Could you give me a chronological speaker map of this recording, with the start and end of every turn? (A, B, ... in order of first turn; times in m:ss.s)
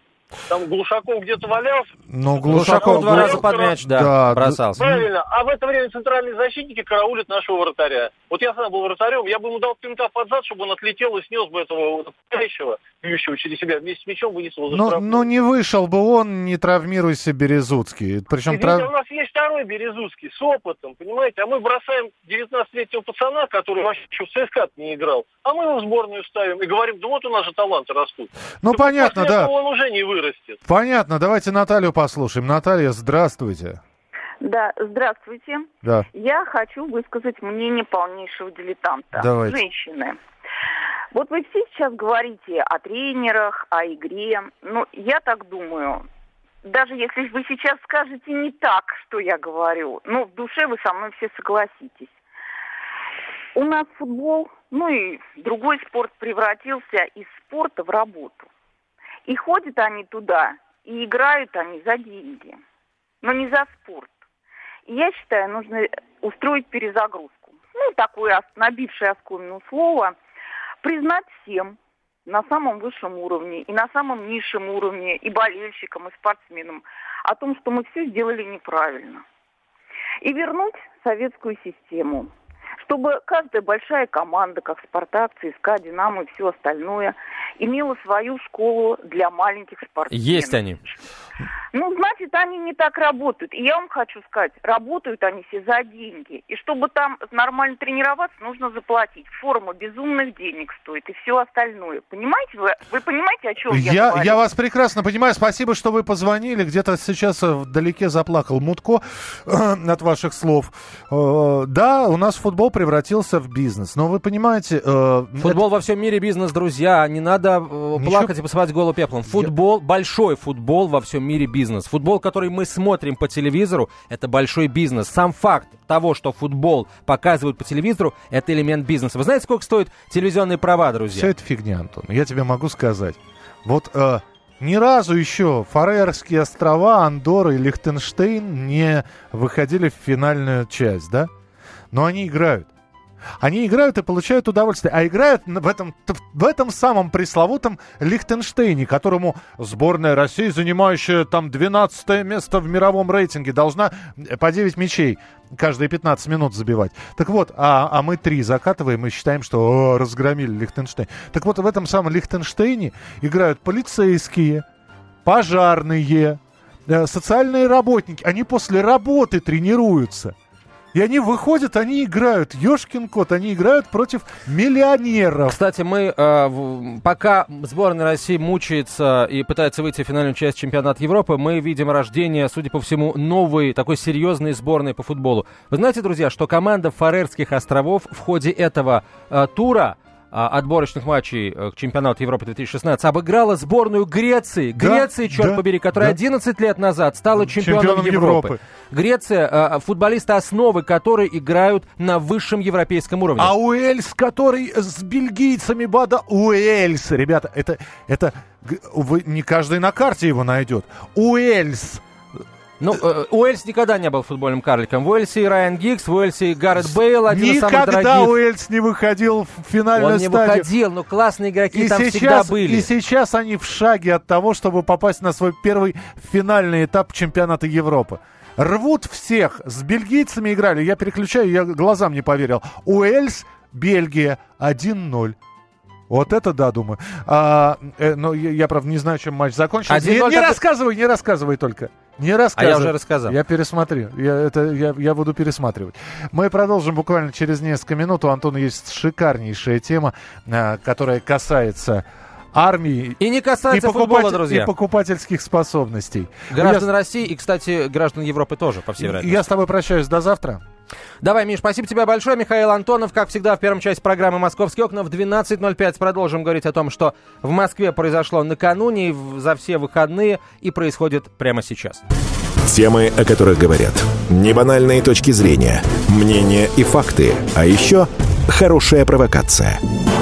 0:00.5-0:03.7 A
0:02.1-0:05.1 B
0:02.5-0:04.8 C
0:04.8-0:15.3 A
0:14.7-0:18.9 B
0:18.5-0:30.6 A
0:28.6-0:29.5 B
0:30.7-0:33.8 B
0:34.4-0:40.2 D
0:39.1-0:39.6 B
0:41.1-0:46.0 D
0:46.6-0:52.1 D
0:53.6-0:58.5 D
0:59.3-1:02.6 D
1:03.2-1:04.1 D
1:04.9-1:10.2 D
1:10.8-1:19.2 D
1:20.2-1:22.3 D
1:22.8-1:30.6 D
1:30.1-1:30.8 C
1:31.7-1:44.4 D
1:43.7-1:55.6 B
1:55.4-2:11.3 C
1:58.0-1:58.3 B
2:11.1-2:21.3 B
2:21.9-2:22.7 B
2:23.4-2:44.6 B
2:45.2-2:50.3 B
2:50.9-2:55.6 B
2:55.5-3:23.5 C
3:14.8-3:16.2 B
3:17.4-3:18.6 B
3:23.4-3:32.0 B
3:32.8-3:38.4 C
3:36.8-3:40.7 B
3:40.0-3:42.9 C
3:41.7-3:55.4 B
3:56.1-4:16.9 B
3:59.9-4:00.6 C
4:02.6-4:03.4 C
4:13.2-4:14.7 C
4:16.5-4:19.5 C
4:19.0-4:20.6 B
4:21.2-4:32.0 C
4:32.6-4:39.8 E